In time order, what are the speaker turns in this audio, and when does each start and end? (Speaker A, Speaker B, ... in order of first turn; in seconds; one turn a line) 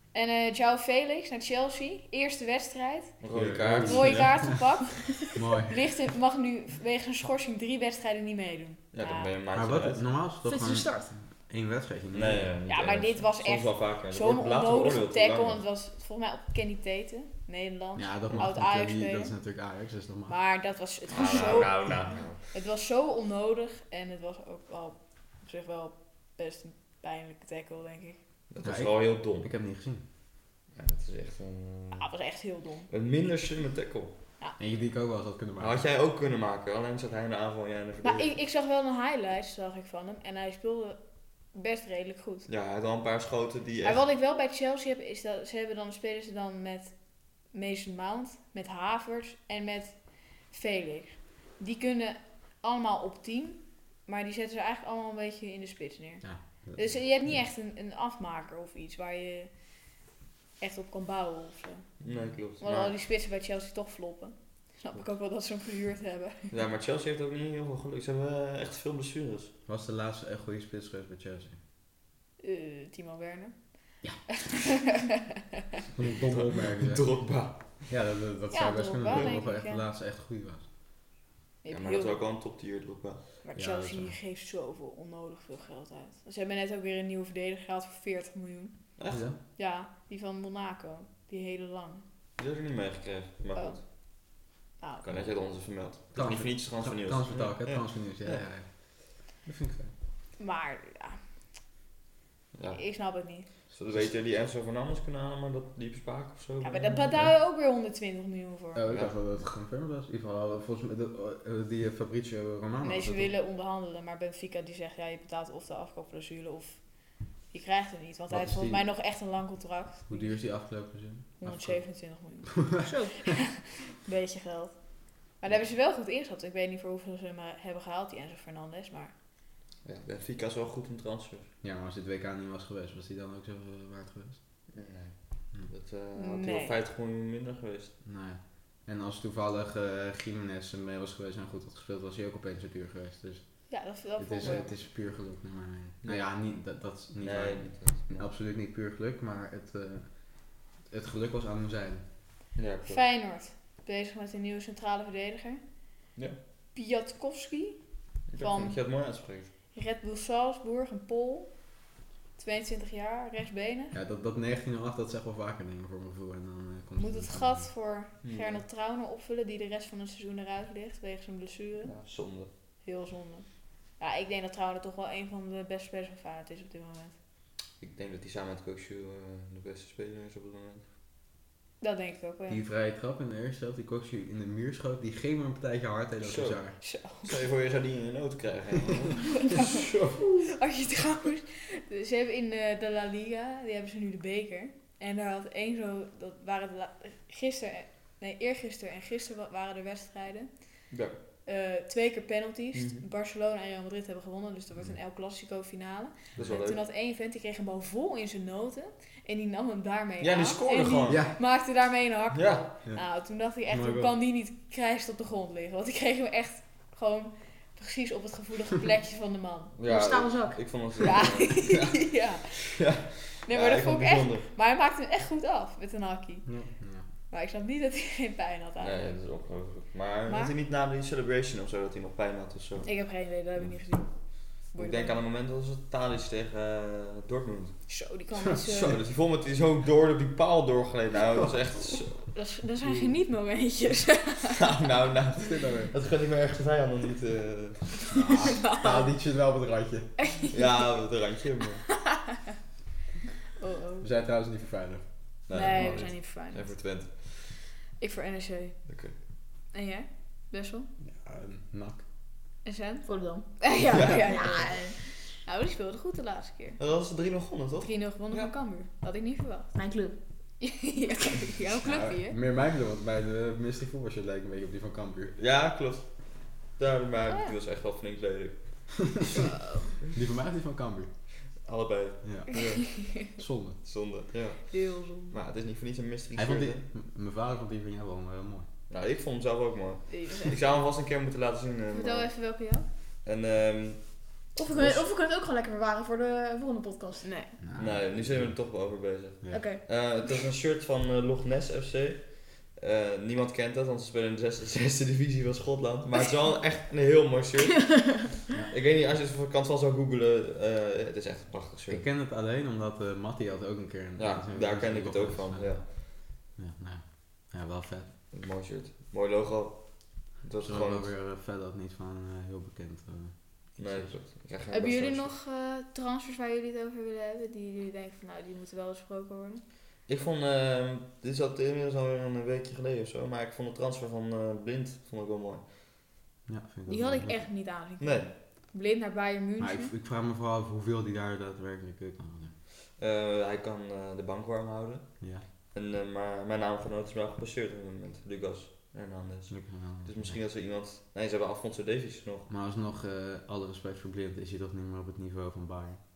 Speaker A: 0.1-3.1
Speaker B: 3.2-4.4
Speaker C: 3.3-4.5
Speaker A: 3.8-9.3
Speaker C: 5.3-5.8
Speaker B: 8.9-10.0
Speaker C: 9.5-12.5
Speaker D: 10.4-11.1
Speaker B: 12.1-15.6
Speaker A: 12.7-19.3
Speaker C: 17.9-20.4
Speaker A: 20.3-28.2
Speaker B: 21.1-22.4
Speaker B: 28.5-29.5
Speaker C: 28.6-30.0
Speaker B: 30.7-32.1
Speaker A: 32.0-32.9
Speaker B: 32.9-34.1
Speaker C: 34.6-35.8
Speaker B: 35.6-38.4
Speaker A: 38.0-41.0
Speaker A: 41.5-42.5
Speaker B: 42.5-44.0
Speaker A: 43.8-59.8
Speaker C: 56.2-57.4
Speaker A: 60.6-61.9
Speaker B: 62.0-63.0
Speaker A: 62.5-66.5
Speaker B: 66.5-69.5
Speaker C: 69.7-71.6
Speaker A: 72.4-74.2
Speaker C: 75.9-77.2
Speaker B: 76.3-77.8
Speaker C: 77.7-80.6
Speaker A: 78.5-79.8
Speaker A: 81.6-82.2
Speaker B: 81.7-83.2
Speaker A: 83.4-88.8
Speaker C: 83.5-84.2
Speaker B: 89.0-89.2
Speaker C: 89.1-89.4
Speaker A: 89.5-92.0
Speaker B: 92.4-93.8
Speaker A: 93.5-93.8
Speaker A: 94.8-95.1
Speaker B: 95.0-98.4
Speaker C: 96.1-99.9
Speaker A: 100.4-101.2
Speaker B: 102.5-107.3
Speaker A: 102.7-103.5
Speaker C: 103.9-104.1
Speaker A: 106.6-108.8
Speaker C: 108.7-113.3
Speaker A: 112.8-120.4
Speaker C: 118.3-118.9
Speaker C: 120.1-122.3
Speaker A: 121.4-129.1
Speaker D: 122.8-123.1
Speaker B: 129.8-131.5
Speaker C: 131.6-134.4
Speaker B: 134.7-137.9
Speaker A: 136.1-136.8
Speaker C: 138.0-152.0
Speaker A: 143.7-144.7
Speaker B: 146.0-146.3
Speaker B: 147.2-148.2
Speaker B: 152.6-153.0
Speaker A: 152.9-155.6
Speaker A: 156.7-159.0
Speaker B: 158.3-159.5
Speaker A: 159.7-161.7
Speaker A: 162.3-163.9
Speaker C: 163.9-167.7
Speaker A: 167.0-172.0
Speaker B: 168.2-168.6
Speaker B: 171.8-172.5
Speaker A: 172.8-177.2
Speaker B: 177.8-180.8
Speaker A: 181.8-182.6
Speaker C: 182.5-186.8
Speaker B: 186.2-190.2
Speaker A: 186.8-187.3
Speaker A: 190.5-200.8
Speaker B: 200.9-201.2
Speaker A: 201.4-219.7
Speaker B: 202.7-203.0
Speaker B: 206.3-206.8
Speaker B: 210.2-211.4
Speaker C: 211.1-211.4
Speaker B: 212.3-212.6
Speaker C: 212.8-214.1
Speaker B: 219.8-222.0
Speaker D: 219.9-220.7
Speaker A: 221.0-222.7
Speaker B: 222.8-224.5
Speaker A: 223.5-226.6
Speaker C: 226.4-227.1
Speaker A: 227.3-229.1
Speaker B: 228.8-233.7
Speaker A: 230.3-230.5
Speaker A: 232.8-235.2
Speaker B: 234.6-237.8
Speaker A: 237.9-238.9
Speaker C: 238.6-239.0
Speaker B: 238.8-242.3
Speaker A: 242.3-244.5
Speaker C: 242.8-243.2
Speaker B: 244.5-248.2
Speaker C: 245.5-245.9
Speaker C: 248.1-250.2
Speaker A: 248.6-249.1
Speaker A: 250.3-251.0
Speaker B: 250.5-251.9
Speaker A: 253.6-254.1
Speaker C: 254.0-256.0
Speaker B: 255.5-257.3
Speaker A: 255.5-256.7
Speaker A: 258.0-258.8
Speaker B: 258.9-259.1
Speaker A: 259.7-260.9
Speaker C: 261.0-262.0
Speaker A: 262.6-266.8
Speaker D: 263.0-263.6
Speaker D: 264.1-265.0
Speaker B: 266.8-268.5
Speaker A: 267.8-269.7
Speaker D: 269.7-270.1
Speaker A: 270.6-272.4
Speaker C: 271.8-275.3
Speaker B: 275.4-279.0
Speaker A: 277.3-277.6
Speaker A: 279.3-279.9
Speaker C: 280.1-281.1
Speaker B: 281.6-282.8
Speaker C: 282.2-283.8
Speaker A: 282.5-283.2
Speaker B: 283.8-286.8
Speaker A: 284.6-285.4
Speaker C: 286.4-288.7
Speaker B: 288.9-292.3
Speaker A: 290.1-290.5
Speaker A: 291.9-292.9
Speaker B: 293.2-294.2
Speaker D: 294.6-297.3
Speaker A: 297.2-297.5
Speaker C: 297.6-298.6
Speaker B: 297.8-312.0
Speaker D: 299.5-299.8
Speaker C: 311.9-318.2
Speaker B: 314.2-315.9
Speaker B: 318.3-321.1
Speaker C: 320.6-324.1
Speaker B: 323.8-325.4
Speaker A: 324.7-329.6
Speaker B: 330.1-335.6
Speaker C: 336.5-337.5
Speaker A: 336.9-339.9
Speaker B: 338.0-338.3
Speaker C: 339.6-342.5
Speaker B: 343.0-352.5
Speaker C: 345.2-345.4
Speaker C: 349.5-350.4
Speaker C: 352.5-356.0